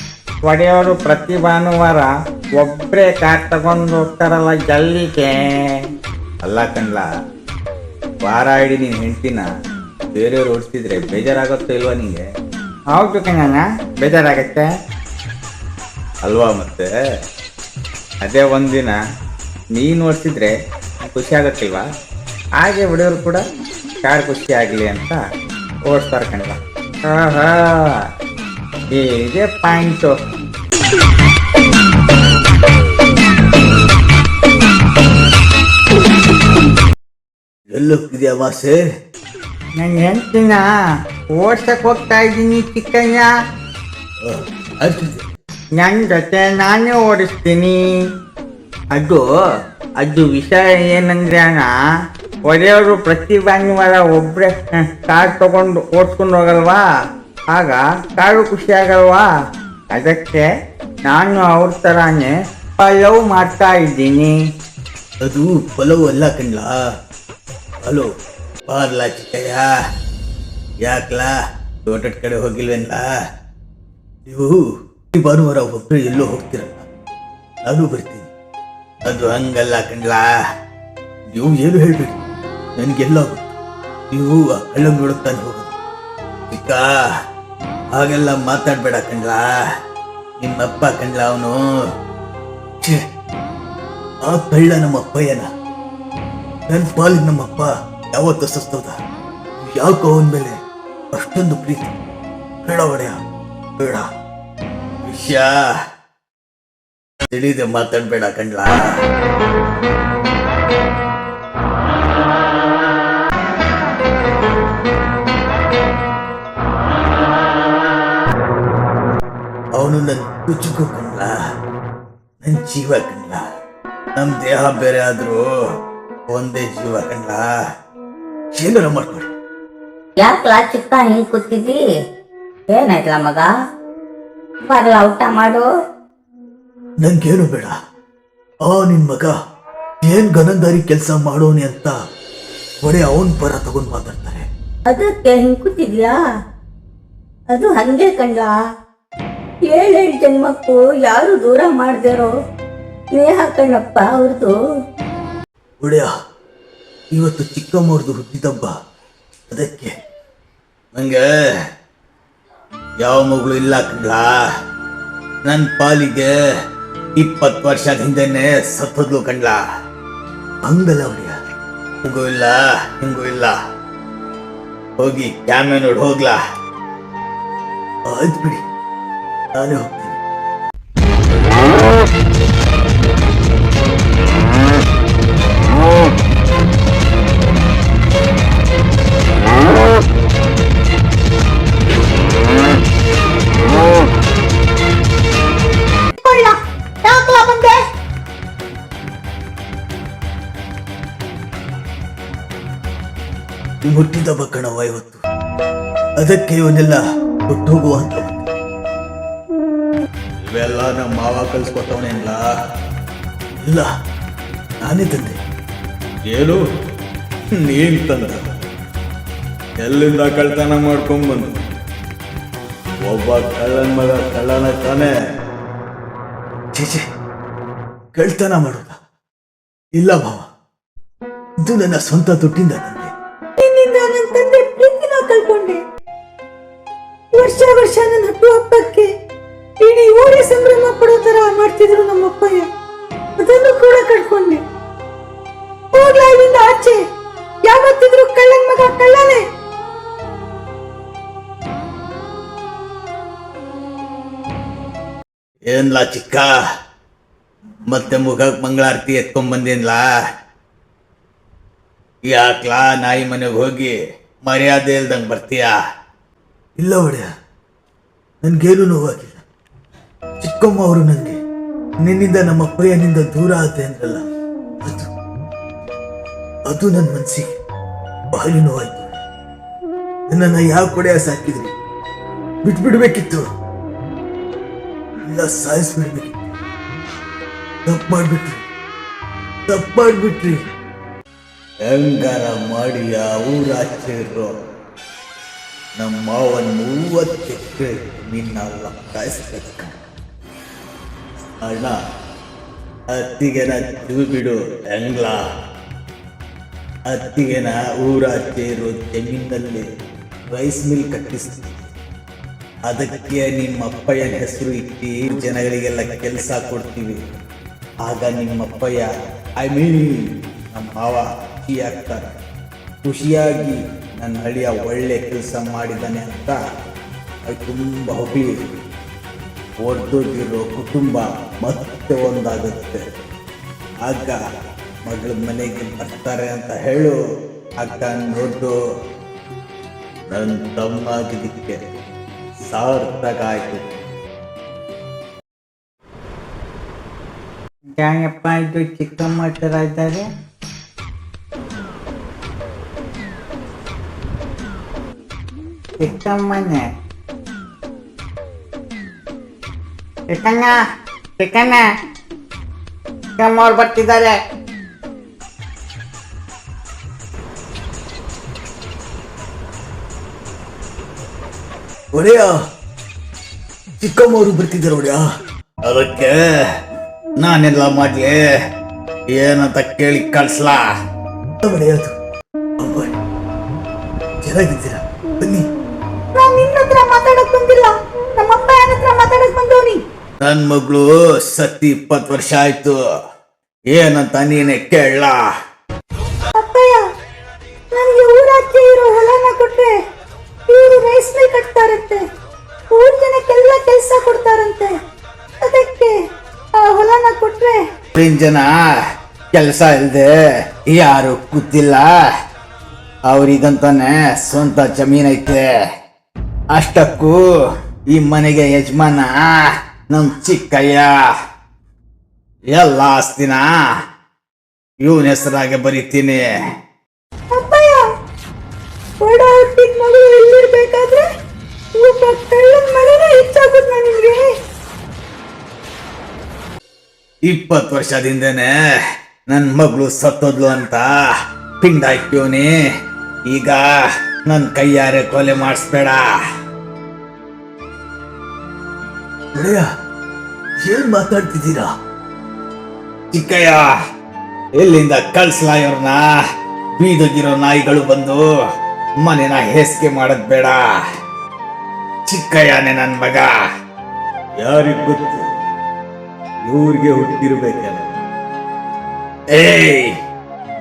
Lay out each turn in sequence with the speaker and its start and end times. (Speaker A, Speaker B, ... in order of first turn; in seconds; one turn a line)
Speaker A: 0.4-5.4
Speaker B: 6.4-7.1
Speaker B: 8.2-9.5
Speaker B: 10.1-12.2
Speaker A: 12.9-14.7
Speaker B: 16.2-16.9
Speaker B: 18.2-19.0
Speaker B: 20.0-20.3
Speaker A: 22.6-23.4
Speaker A: 24.0-25.2
Speaker A: 25.9-26.5
Speaker A: 27.1-27.8
Speaker A: 28.9-30.1
Speaker B: 37.7-38.8
Speaker A: 39.8-40.6
Speaker A: 41.4-43.3
Speaker B: 44.2-45.2
Speaker A: 45.8-47.8
Speaker A: 50.0-51.7
Speaker A: 52.5-56.8
Speaker A: 57.5-59.2
Speaker A: 59.9-60.5
Speaker A: 61.1-64.3
Speaker B: 65.2-66.7
Speaker B: 67.8-68.1
Speaker B: 68.7-69.7
Speaker B: 70.8-73.0
Speaker B: 74.2-76.8
Speaker B: 77.6-78.3
Speaker B: 79.0-80.2
Speaker B: 81.3-82.2
Speaker B: 82.8-83.5
Speaker B: 84.1-85.7
Speaker B: 86.5-86.9
Speaker B: 87.9-89.5
Speaker B: 90.4-91.7
Speaker B: 94.2-95.5
Speaker B: 96.7-99.0
Speaker B: 99.7-100.6
Speaker B: 101.1-101.9
Speaker B: 102.6-103.2
Speaker B: 103.8-104.0
Speaker B: 105.0-105.7
Speaker B: 107.3-108.9
Speaker B: 119.7-121.3
Speaker B: 122.4-123.4
Speaker B: 124.2-125.5
Speaker B: 126.3-127.4
Speaker B: 128.5-129.3
Speaker B: 137.0-137.7
Speaker B: 138.7-139.3
Speaker B: 140.0-141.9
Speaker B: 142.8-144.5
Speaker C: 144.9-146.1
Speaker C: 147.5-148.5
Speaker C: 149.7-152.3
Speaker C: 153.2-154.5
Speaker B: 155.8-156.1
Speaker B: 157.1-158.7
Speaker B: 159.5-159.9
Speaker B: 160.9-161.2
Speaker B: 163.0-164.4
Speaker B: 165.4-166.3
Speaker B: 167.2-169.6
Speaker B: 170.6-171.3
Speaker B: 172.0-173.5
Speaker B: 175.0-176.4
Speaker B: 178.1-178.6
Speaker B: 179.5-180.2
Speaker C: 196.2-197.8
Speaker B: 203.8-205.2
Speaker B: 206.2-208.4
Speaker B: 210.4-212.4
Speaker B: 213.6-213.9
Speaker B: 214.8-215.4
Speaker B: 216.3-216.6
Speaker B: 217.5-218.4
Speaker B: 219.8-221.5
Speaker B: 223.1-225.1
Speaker B: 226.7-227.0
Speaker B: 228.1-228.9
Speaker B: 229.9-230.4
Speaker B: 231.6-233.1
Speaker C: 233.6-235.8
Speaker C: 237.3-239.1
Speaker C: 239.8-242.7
Speaker C: 243.4-244.6
Speaker C: 245.9-247.0
Speaker C: 247.7-249.4
Speaker B: 255.7-256.5
Speaker B: 257.9-260.0
Speaker B: 262.3-265.7
Speaker B: 266.8-267.2
Speaker B: 268.4-269.4
Speaker B: 270.4-271.4
Speaker B: 272.0-274.2
Speaker B: 274.8-275.1
Speaker B: 276.7-277.5
Speaker B: 278.3-279.1
Speaker B: 280.3-281.7
Speaker B: 282.6-283.4
Speaker B: 285.3-286.4
Speaker B: 287.8-288.6
Speaker B: 289.7-290.6
Speaker B: 291.8-294.5
Speaker B: 295.9-300.0
Speaker B: 301.6-301.9
Speaker B: 303.1-305.4
Speaker B: 307.1-309.9
Speaker B: 310.5-311.9
Speaker B: 312.9-317.2
Speaker B: 318.0-322.3
Speaker B: 323.0-326.6
Speaker B: 327.4-328.7
Speaker B: 329.8-333.1
Speaker B: 334.0-334.4
Speaker B: 335.1-337.2
Speaker B: 337.8-338.7
Speaker B: 340.3-341.8
Speaker B: 342.6-343.8
Speaker A: 348.0-350.3
Speaker A: 356.0-356.9
Speaker A: 360.3-360.7
Speaker A: 361.4-361.8
Speaker A: 363.4-364.4
Speaker B: 372.1-372.6
Speaker B: 374.0-375.2
Speaker B: 375.8-376.6
Speaker B: 377.4-378.4
Speaker B: 379.3-380.9
Speaker B: 381.6-382.1
Speaker B: 382.8-383.1
Speaker B: 384.4-385.7
Speaker C: 386.3-390.0
Speaker B: 390.4-393.0
Speaker B: 393.9-395.4
Speaker C: 396.6-397.0
Speaker C: 397.9-399.9
Speaker C: 400.7-402.2
Speaker C: 402.9-404.9
Speaker C: 405.6-406.1
Speaker C: 406.8-407.8
Speaker B: 408.1-408.8
Speaker B: 409.5-412.1
Speaker B: 413.3-415.7
Speaker B: 416.7-417.5
Speaker B: 418.1-421.2
Speaker B: 422.7-423.7
Speaker B: 425.0-426.5
Speaker C: 427.5-428.0
Speaker C: 429.2-431.2
Speaker C: 432.0-434.4
Speaker B: 437.4-438.7
Speaker B: 439.5-441.1
Speaker B: 441.8-442.8
Speaker B: 443.5-446.3
Speaker B: 449.5-449.8
Speaker B: 450.8-451.9
Speaker B: 453.3-453.9
Speaker B: 454.8-456.4
Speaker B: 457.0-458.5
Speaker B: 459.2-461.0
Speaker B: 462.2-463.6
Speaker B: 464.6-465.5
Speaker B: 466.6-468.1
Speaker B: 469.5-470.1